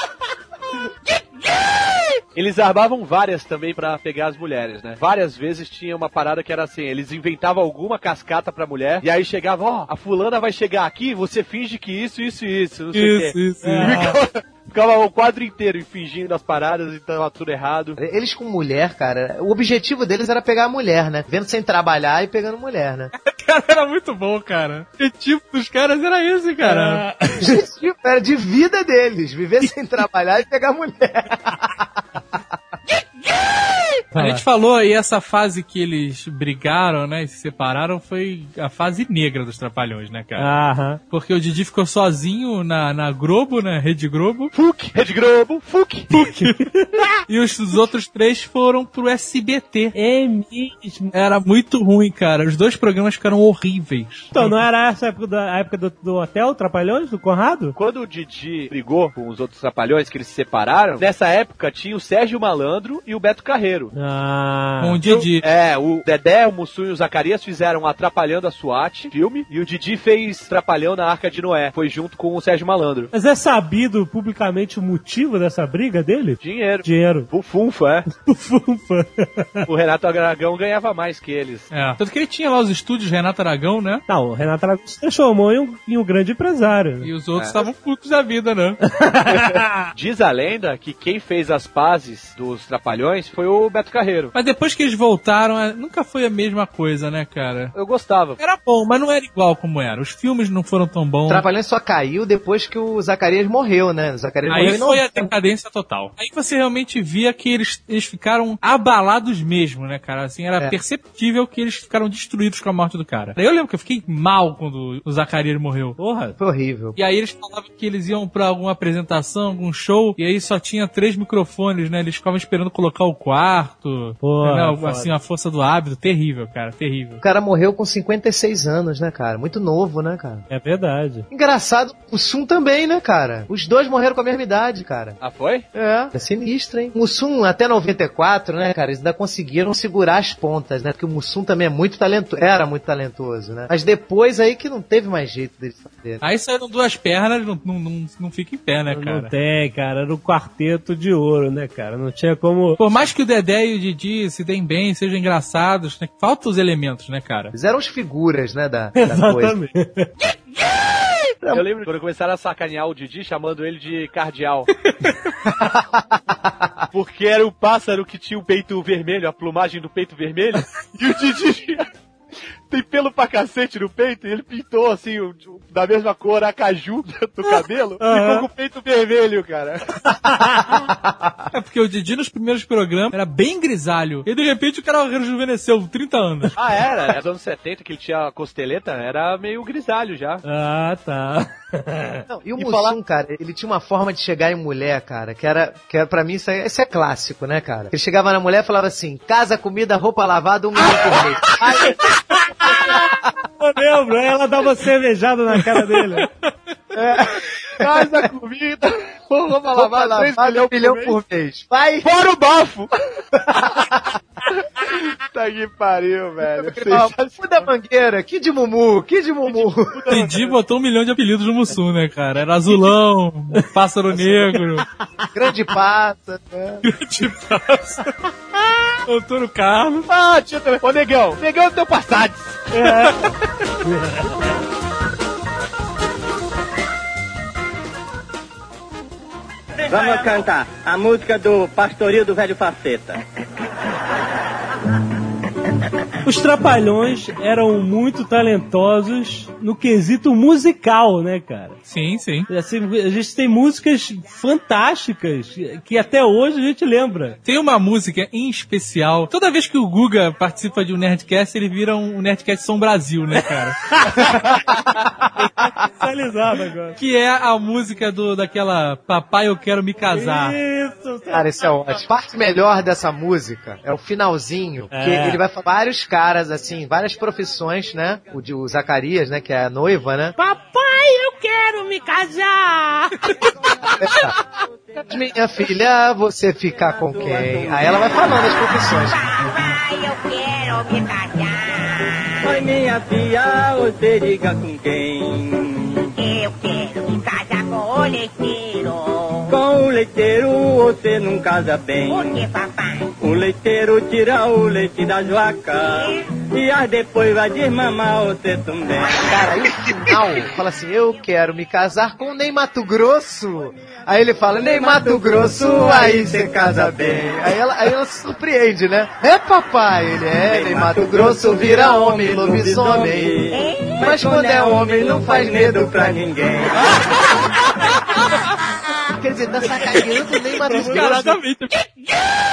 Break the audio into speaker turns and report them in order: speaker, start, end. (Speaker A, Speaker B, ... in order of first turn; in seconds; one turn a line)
Speaker A: 2.4-18.0
Speaker B: 12.9-14.1
Speaker C: 13.6-14.2
Speaker D: 18.0-23.1
Speaker B: 23.2-27.1
Speaker C: 26.6-27.6
Speaker D: 27.4-31.9
Speaker C: 34.1-34.4
Speaker B: 34.1-44.5
Speaker C: 40.4-41.0
Speaker A: 44.5-46.1
Speaker B: 46.1-46.7
Speaker C: 46.5-47.1
Speaker B: 47.3-50.0
Speaker C: 50.0-51.1
Speaker B: 51.1-54.6
Speaker C: 54.3-57.8
Speaker A: 57.8-63.9
Speaker C: 63.9-65.0
Speaker B: 64.8-65.5
Speaker A: 65.0-73.1
Speaker C: 73.1-77.3
Speaker A: 76.4-78.0
Speaker C: 78.1-79.7
Speaker A: 79.7-81.7
Speaker B: 81.7-84.0
Speaker C: 84.1-87.1
Speaker B: 87.0-88.8
Speaker A: 87.4-87.6
Speaker C: 88.9-89.9
Speaker A: 89.4-94.3
Speaker B: 94.3-97.8
Speaker A: 97.7-98.4
Speaker B: 98.4-101.5
Speaker D: 101.3-105.3
Speaker B: 104.5-116.0
Speaker A: 104.5-104.7
Speaker C: 116.0-116.4
Speaker D: 116.4-117.0
Speaker B: 117.0-127.2
Speaker C: 124.2-125.1
Speaker D: 127.2-130.4
Speaker C: 130.5-131.3
Speaker D: 131.3-135.2
Speaker A: 135.2-135.7
Speaker D: 135.7-146.2
Speaker B: 146.2-149.3
Speaker C: 148.9-152.8
Speaker B: 152.8-157.6
Speaker D: 157.6-159.6
Speaker C: 159.0-160.1
Speaker D: 161.4-161.8
Speaker A: 161.5-164.7
Speaker D: 165.5-166.9
Speaker A: 166.9-171.9
Speaker A: 172.7-179.9
Speaker C: 178.0-178.5
Speaker C: 180.3-180.8
Speaker D: 180.7-181.5
Speaker B: 181.5-186.5
Speaker A: 186.6-190.4
Speaker C: 190.4-192.3
Speaker D: 192.3-203.3
Speaker A: 192.6-193.0
Speaker C: 201.8-206.3
Speaker B: 205.7-206.5
Speaker D: 206.9-208.3
Speaker A: 207.8-211.2
Speaker D: 209.7-212.1
Speaker A: 212.0-212.9
Speaker D: 213.4-214.1
Speaker A: 214.7-217.7
Speaker D: 216.6-220.2
Speaker A: 219.5-220.5
Speaker B: 220.1-224.8
Speaker D: 225.3-226.8
Speaker B: 226.8-228.1
Speaker B: 229.1-230.1
Speaker A: 230.1-232.7
Speaker C: 232.7-233.2
Speaker C: 233.8-234.5
Speaker E: 239.9-243.2
Speaker C: 246.2-251.8
Speaker B: 251.9-252.5
Speaker C: 252.5-257.4
Speaker B: 257.4-263.8
Speaker C: 263.9-264.3
Speaker D: 264.1-265.3
Speaker C: 265.6-267.0
Speaker B: 267.0-270.6
Speaker C: 270.1-271.6
Speaker D: 271.3-280.4
Speaker C: 274.9-275.4
Speaker C: 280.4-283.4
Speaker D: 284.0-284.4
Speaker D: 285.1-289.3
Speaker E: 287.1-288.0
Speaker F: 289.4-292.0
Speaker E: 292.4-296.1
Speaker F: 296.3-299.4
Speaker E: 299.5-302.5
Speaker F: 302.1-302.8
Speaker E: 303.2-309.5
Speaker D: 309.1-323.3
Speaker E: 314.6-317.3
Speaker E: 320.5-326.9
Speaker D: 324.0-326.3
Speaker D: 329.1-331.4
Speaker B: 330.5-331.8
Speaker C: 330.6-331.2